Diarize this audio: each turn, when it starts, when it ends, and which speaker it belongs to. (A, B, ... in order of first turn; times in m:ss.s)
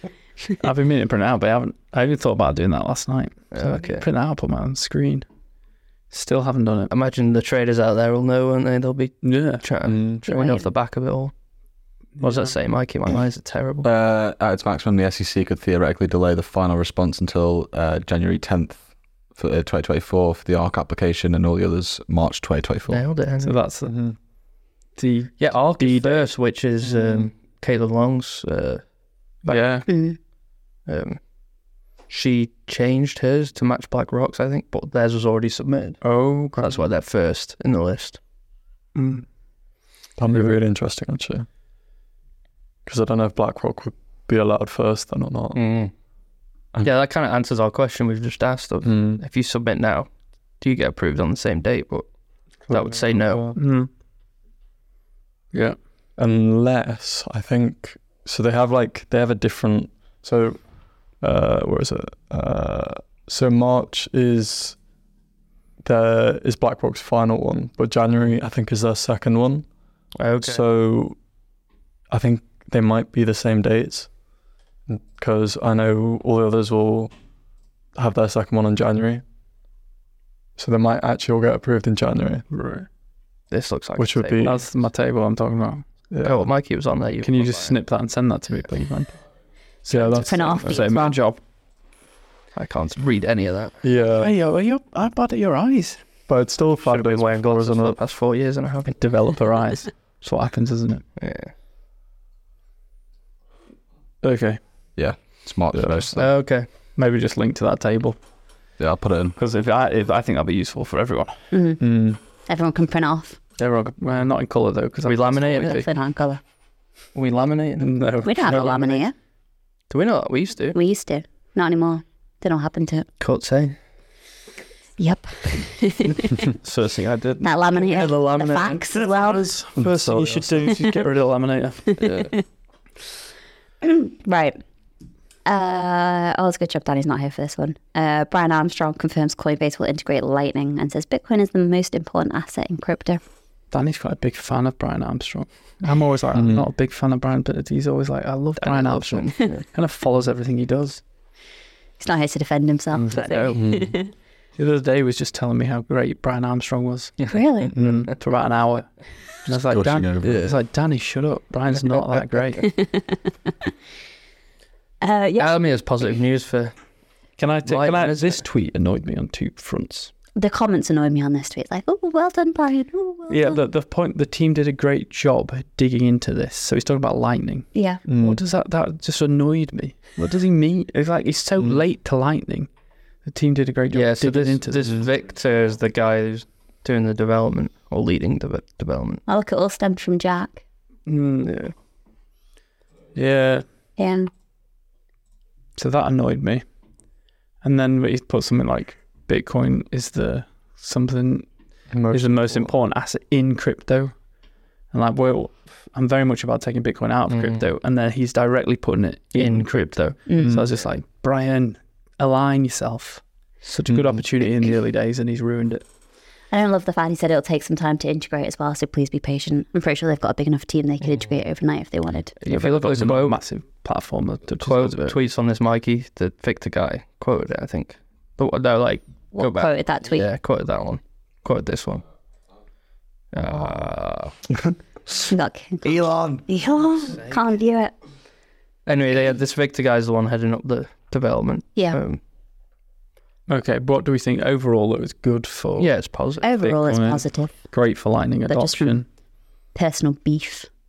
0:00.4-0:05.2 A
0:03.5-0:04.0 B
0:06.1-0:06.9 A
0:06.9-0:11.3 B
0:09.2-0:09.7 A
0:09.8-0:10.2 C
0:10.3-0:10.7 D
0:12.2-0:12.5 A
0:12.2-0:13.9 B
0:13.8-0:23.0 E
0:22.9-0:23.6 B
0:23.4-0:24.1 A
0:23.9-0:24.2 C
0:25.0-0:26.2 A
0:25.4-0:28.8 B
0:29.4-0:29.9 A
0:29.9-0:30.2 D
0:30.9-0:31.2 B
0:32.1-0:38.2 B
0:36.0-0:36.8 A
0:39.0-0:39.2 A
0:40.2-0:41.5 C
0:42.9-0:45.6 C
0:45.6-0:45.9 B
0:46.8-0:52.1 B
0:48.8-0:49.2 C
0:52.7-0:53.5 B
0:52.7-0:53.6 C
0:53.6-0:53.9 A
0:56.2-1:04.8 C
1:05.8-1:09.7 C
1:10.2-1:10.6 B
1:10.4-1:11.2 C
1:12.1-1:14.1 C
1:14.9-1:17.1 C
1:18.0-1:19.2 C
1:20.6-1:22.4 C
1:22.5-1:22.9 A
1:23.5-1:24.6 B
1:24.0-1:24.6 C
1:24.4-1:25.9 A
1:26.2-1:27.8 B
1:27.2-1:29.2 A
1:29.8-1:31.4 A
1:29.9-1:30.2 C
1:29.9-1:30.8 B
1:30.2-1:31.2 D
1:32.6-1:33.8 B
1:33.8-1:34.3 C
1:34.2-1:36.0 A
1:36.3-1:37.9 C
1:36.8-1:39.0 B
1:39.0-1:41.0 A
1:41.2-1:41.5 B
1:44.2-1:44.6 A
1:45.0-1:46.3 E
1:45.7-1:46.0 A
1:46.1-1:46.7 B
1:47.0-1:48.2 A
1:48.8-1:49.4 E
1:49.4-1:51.4 A
1:51.5-1:53.4 D
1:51.8-1:52.2 C
1:53.6-1:55.9 A
1:55.0-1:55.8 B
1:55.6-1:56.4 D
1:57.1-1:58.5 B
1:57.8-1:59.0 A
1:58.2-1:59.1 D
1:59.9-2:00.8 B
2:00.7-2:03.1 D
2:03.2-2:03.8 B
2:05.0-2:06.4 D
2:06.6-2:07.5 A
2:07.4-2:09.5 D
2:07.8-2:08.9 B
2:09.2-2:12.0 A
2:09.8-2:10.7 C
2:12.0-2:12.4 D
2:12.0-2:12.3 B
2:13.8-2:14.6 D
2:15.5-2:23.2 D
2:23.7-2:31.0 A
2:26.4-2:26.6 C
2:28.6-2:29.6 B
2:32.0-2:34.1 D
2:33.1-2:33.6 A
2:33.6-2:33.9 C
2:34.6-2:42.7 A
2:37.3-2:37.7 D
2:39.7-2:40.5 E
2:42.6-2:43.3 D
2:45.0-2:45.6 D
2:45.4-2:46.8 B
2:47.4-2:50.1 A
2:47.7-2:48.4 B
2:50.4-2:53.6 D
2:53.3-3:02.7 A
2:57.7-2:58.0 D
2:58.1-2:58.4 C
3:03.2-3:05.0 A
3:03.9-3:09.2 B
3:09.3-3:10.6 D
3:11.1-3:11.5 A
3:11.4-3:11.7 B
3:13.2-3:13.6 A
3:14.0-3:14.3 D
3:15.8-3:16.6 A
3:17.6-3:24.2 A
3:21.9-3:22.7 C
3:24.9-3:35.8 A
3:27.3-3:27.6 B
3:29.4-3:30.2 B
3:30.3-3:30.5 D
3:30.4-3:30.7 C
3:33.9-3:34.2 C
3:36.5-3:42.4 D
3:42.4-3:43.4 B
3:42.5-3:45.2 A
3:44.6-3:52.1 B
3:49.3-3:50.3 D
3:53.3-3:54.4 B
3:55.3-3:57.9 D
3:58.9-4:02.2 B
4:03.5-4:06.1 A
4:05.8-4:06.5 B
4:06.4-4:07.7 D
4:06.6-4:09.1 A
4:08.5-4:09.0 D
4:09.7-4:10.7 D